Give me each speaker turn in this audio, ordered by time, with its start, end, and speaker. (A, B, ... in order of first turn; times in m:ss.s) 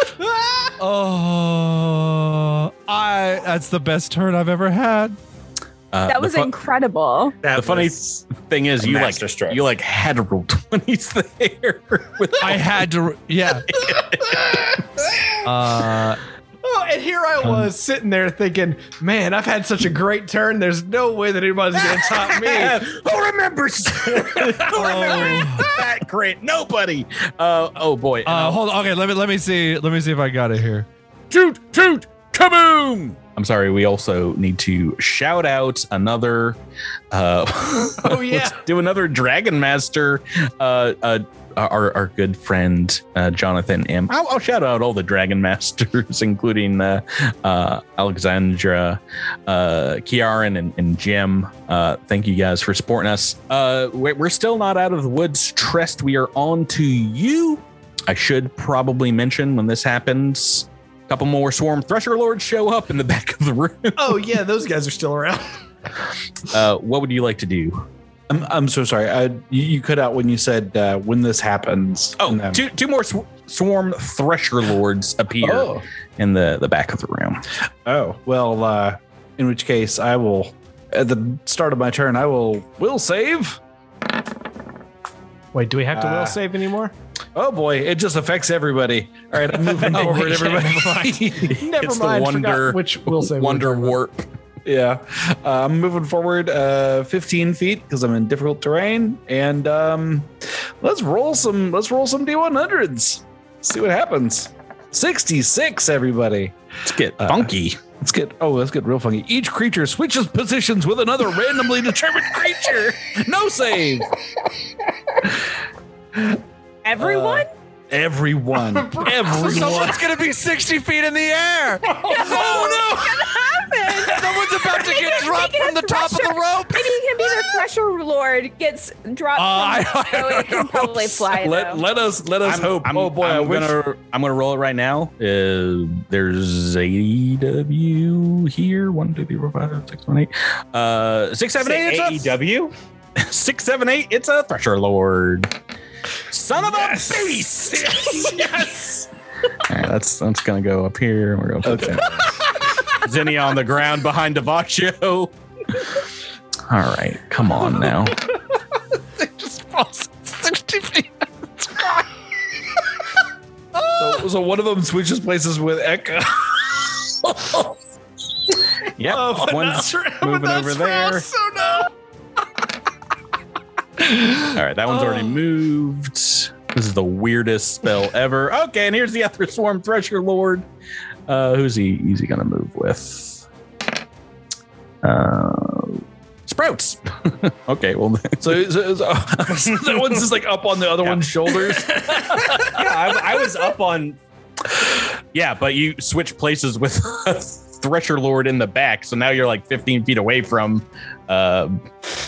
0:00.8-0:05.2 A
0:05.9-0:06.5 B
0:06.1-0:07.4 C
0:07.4-0:08.0 D
0:07.6-0:12.8 B
0:08.8-0:09.6 D
0:12.4-0:13.7 A
0:13.7-0:14.6 B
0:15.4-0:16.2 A
0:16.6-0:22.9 E
0:17.4-0:17.7 A
0:21.7-0:28.6 B
0:24.7-0:25.7 A
0:28.2-0:30.9 A
0:31.3-0:36.6 B
0:37.1-1:04.2 B
0:38.0-0:38.6 E
1:04.0-1:05.6 E
1:06.4-1:07.8 B
1:08.3-1:12.6 F
1:12.2-1:17.4 B
1:15.4-1:15.8 F
1:17.8-1:23.6 F
1:25.5-1:26.9 E
1:25.9-1:26.4 F
1:27.4-1:31.5 F
1:29.8-1:31.2 A
1:29.9-1:30.2 B
1:30.2-1:30.6 E
1:31.5-1:34.3 B
1:31.5-1:34.0 E
1:34.6-1:46.5 F
1:46.8-1:47.8 B
1:47.2-1:54.1 F
1:56.8-1:57.5 C
1:57.0-2:00.0 F
1:59.0-2:01.9 A
2:01.9-2:03.3 F
2:01.9-2:11.8 C
2:04.2-2:07.0 A
2:09.3-2:11.3 A
2:11.4-2:13.8 F
2:12.4-2:22.3 B
2:21.6-2:22.7 D
2:23.2-2:25.5 B
2:26.3-2:28.8 B
2:26.6-2:29.0 E
2:29.7-2:32.2 B
2:31.6-2:32.1 F
2:33.0-2:35.9 B
2:36.7-2:38.2 B
2:39.2-2:42.0 A
2:43.7-2:44.2 A
2:44.0-2:47.0 F
2:49.0-2:51.3 B
2:49.0-2:51.9 E
2:54.1-2:54.5 A
2:54.5-3:00.6 B
3:01.3-3:03.4 B
3:05.0-3:08.6 B
3:08.4-3:12.8 F
3:09.8-3:10.2 B
3:11.0-3:11.6 B
3:12.7-3:14.2 D
3:15.3-3:21.8 B